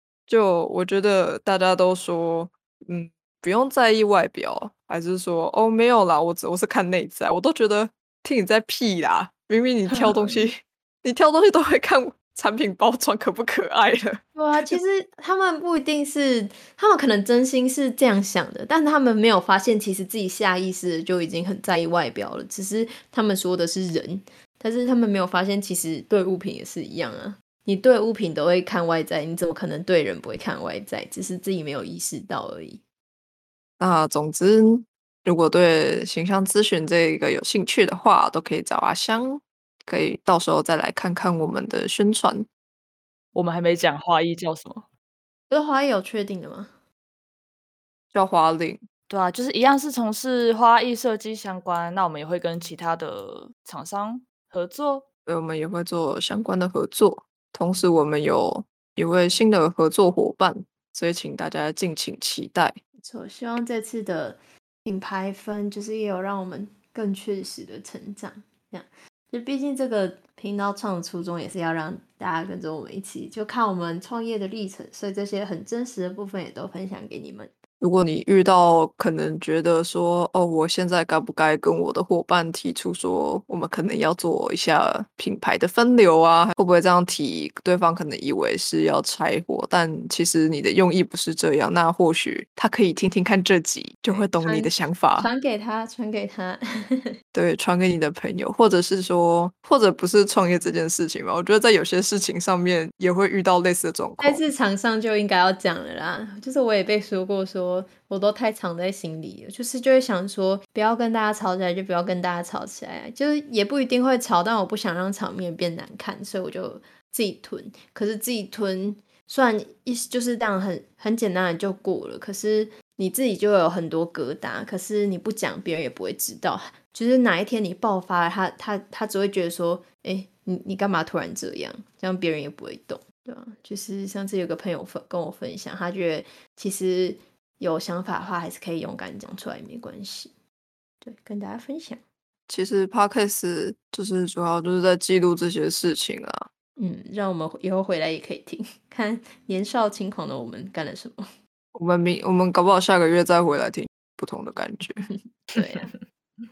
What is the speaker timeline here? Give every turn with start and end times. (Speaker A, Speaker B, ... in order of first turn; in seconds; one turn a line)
Speaker A: 0.3-14.8
Speaker B: 10.0-10.4
Speaker B: 14.3-32.8
Speaker A: 33.8-42.5
Speaker C: 43.3-44.9
Speaker B: 45.5-46.8
Speaker A: 48.1-48.8
Speaker C: 49.1-55.1
Speaker A: 55.2-62.8
Speaker B: 63.0-77.5
Speaker A: 77.8-95.3
Speaker B: 94.1-97.0
Speaker A: 97.3-104.4
Speaker B: 104.2-140.3
Speaker B: 141.0-142.0
Speaker A: 142.5-146.5
Speaker B: 146.8-151.2
Speaker A: 151.7-155.0
Speaker B: 155.1-155.9